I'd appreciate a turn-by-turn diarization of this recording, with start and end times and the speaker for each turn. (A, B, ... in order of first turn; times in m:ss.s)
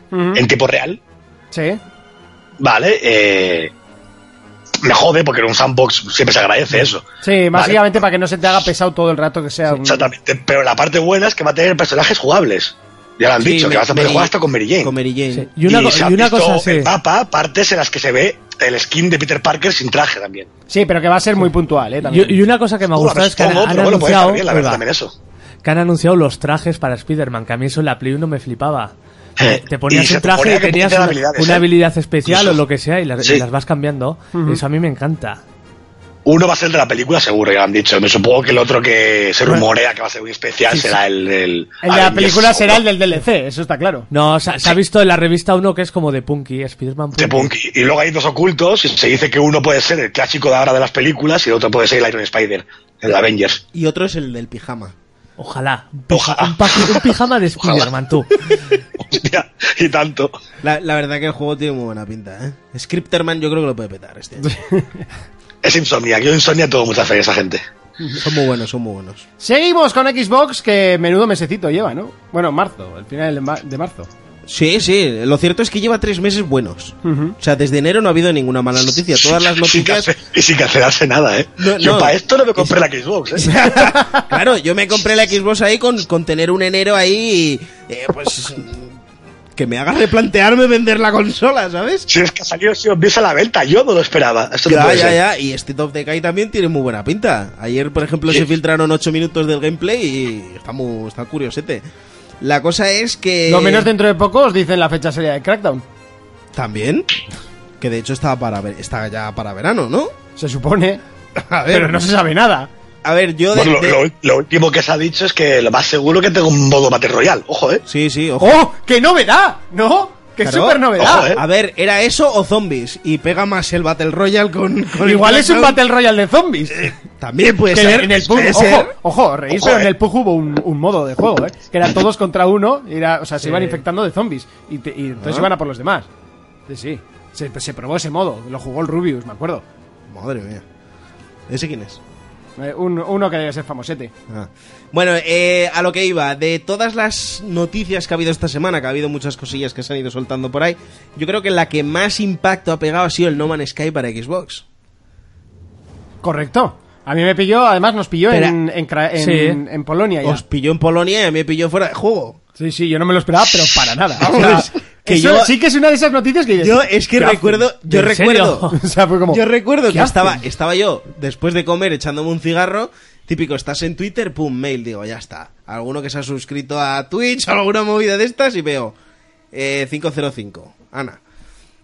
0:00.1-0:00.4 A
0:00.4-0:01.0 B
0:01.5-0:01.8 A
0:02.6-0:03.7 B
0:04.8-0:08.0 B
0:07.2-0:10.1 A
0:09.8-0:14.9 B
0:13.4-0:15.5 C
0:15.3-0:16.9 D
0:15.7-0:20.5 B
0:20.7-0:22.4 A
0:22.1-0:24.8 D
0:22.9-0:25.1 B
0:25.6-0:28.9 D
0:29.4-0:31.7 B
0:29.4-0:35.4 D
0:32.3-0:32.6 B
0:34.3-0:34.6 A
0:36.2-0:42.8 B
0:40.7-0:41.0 A
0:41.8-0:44.1 A
0:44.1-0:47.5 D
0:47.2-0:53.6 B
0:53.7-0:55.0 C
0:55.4-0:58.3 D
0:56.1-0:57.0 B
0:57.6-0:57.9 B
0:59.0-1:00.4 B
1:00.6-1:04.5 C
1:04.4-1:04.9 A
1:05.6-1:07.6 B
1:08.2-1:09.2 C
1:09.4-1:14.1 A
1:14.5-1:20.1 C
1:17.0-1:17.4 A
1:19.2-1:23.6 B
1:21.6-1:22.8 C
1:23.4-1:28.9 C
1:29.6-1:32.1 C
1:32.1-1:35.2 B
1:34.7-1:41.8 C
1:42.4-1:43.9 C
1:43.5-1:45.8 A
1:46.5-1:47.1 C
1:47.8-1:50.1 C
1:50.4-1:51.0 A
1:51.4-1:51.9 C
1:51.7-1:52.7 A
1:53.0-1:54.0 C
1:53.5-1:57.8 B
1:57.9-1:58.6 C
1:58.4-2:01.3 A
2:00.4-2:05.8 C
2:01.0-2:01.4 B
2:05.0-2:06.9 A
2:06.8-2:08.9 C
2:07.7-2:16.1 A
2:09.5-2:09.9 B
2:13.5-2:13.8 D
2:15.2-2:15.5 C
2:16.7-2:19.6 A
2:20.1-2:20.6 C
2:21.5-2:22.0 C
2:22.6-2:24.1 A
2:24.3-2:34.6 C
2:36.2-2:40.4 A
2:38.3-2:38.6 C
2:39.2-2:39.6 D
2:40.2-2:42.4 C
2:42.6-2:47.7 A
2:44.2-2:45.6 C
2:46.6-2:48.7 C
2:47.9-2:48.8 D
2:48.7-2:50.4 A
2:49.3-2:59.0 C
2:59.5-3:01.2 C